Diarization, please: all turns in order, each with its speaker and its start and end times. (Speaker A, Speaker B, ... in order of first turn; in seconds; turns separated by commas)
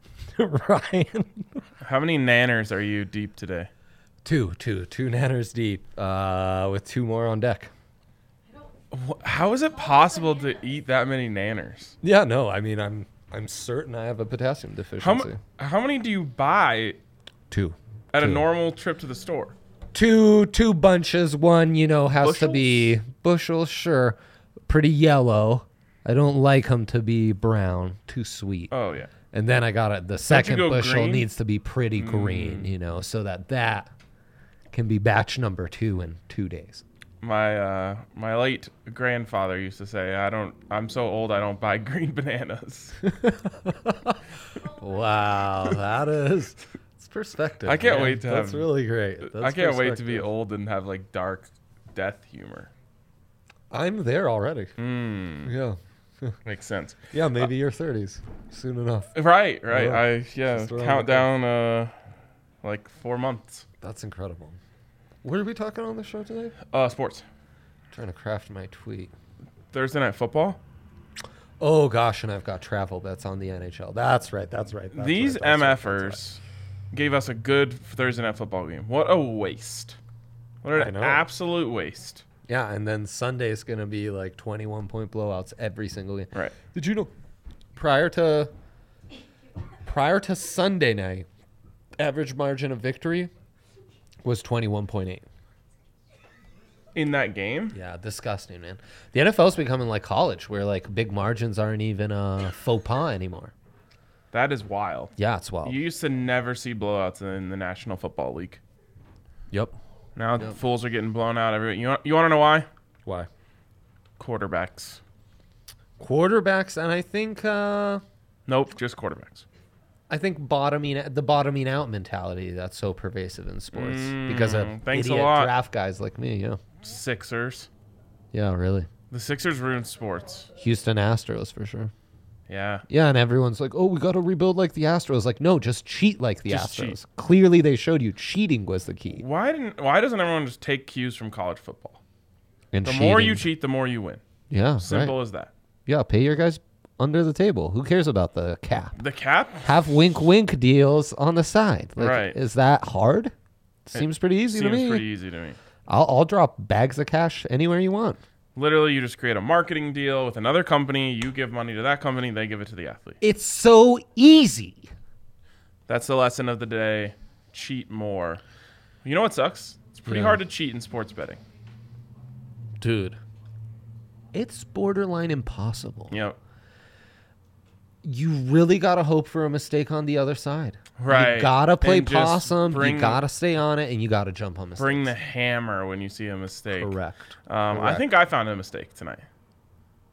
Speaker A: 0.4-1.6, Speaker B: 1.8-3.7, Speaker A: 4.2-7.7, Speaker B: 8.9-11.9, Speaker A: 12.0-15.4, Speaker B: 15.0-17.0, Speaker A: 17.5-18.4, Speaker B: 18.1-19.6, Speaker A: 19.9-28.7, Speaker B: 22.2-22.9, Speaker B: 28.7-29.1, Speaker A: 29.3-33.9, Speaker B: 30.3-31.3, Speaker B: 32.0-32.8, Speaker A: 34.7-36.8, Speaker B: 37.2-43.0, Speaker A: 43.1-50.3, Speaker B: 47.6-48.7, Speaker B: 49.2-52.7, Speaker A: 53.7-54.8, Speaker B: 54.8-55.5, Speaker A: 55.5-56.4, Speaker B: 56.5-57.0, Speaker A: 57.1-59.1, Speaker B: 59.1-61.9, Speaker A: 59.7-61.3, Speaker B: 62.6-63.7, Speaker A: 63.8-64.6, Speaker A: 65.2-66.6, Speaker B: 66.7-67.2, Speaker A: 67.9-69.1, Speaker B: 69.7-70.6, Speaker A: 71.6-76.2, Speaker B: 74.9-76.4, Speaker B: 76.9-80.0, Speaker B: 80.6-82.2, Speaker A: 80.8-81.2, Speaker A: 82.5-87.1, Speaker A: 87.8-88.5, Speaker A: 89.8-91.3, Speaker A: 92.0-93.3, Speaker A: 94.2-95.3, Speaker B: 97.0-97.8, Speaker A: 97.7-103.5, Speaker B: 104.3-105.1, Speaker A: 105.2-105.8, Speaker B: 105.6-108.6, Speaker A: 109.5-109.8, Speaker B: 110.2-112.7, Speaker B: 114.2-115.0, Speaker A: 116.0-118.0, Speaker B: 118.5-119.5, Speaker A: 120.1-126.6, Speaker B: 123.7-125.5, Speaker B: 126.8-127.7, Speaker A: 128.3-128.9, Speaker B: 129.1-130.5, Speaker A: 130.6-131.9, Speaker B: 132.5-132.8, Speaker A: 132.9-139.2, Speaker B: 136.5-137.0, Speaker B: 139.2-142.0, Speaker A: 142.7-143.5, Speaker B: 142.8-144.2, Speaker A: 144.5-145.1, Speaker B: 144.8-145.5, Speaker A: 145.9-148.9, Speaker B: 149.0-149.8, Speaker A: 149.7-153.3, Speaker B: 152.0-152.4, Speaker A: 153.9-155.0, Speaker B: 153.9-155.6, Speaker A: 155.9-158.2, Speaker B: 158.6-163.2, Speaker A: 163.2-164.9, Speaker B: 165.9-168.4, Speaker B: 169.0-171.4, Speaker A: 170.1-170.4, Speaker A: 172.8-173.2, Speaker A: 174.3-176.1, Speaker B: 176.1-176.4, Speaker A: 178.0-185.1, Speaker B: 181.0-183.2, Speaker B: 184.8-186.9, Speaker A: 186.8-188.0, Speaker B: 187.5-189.3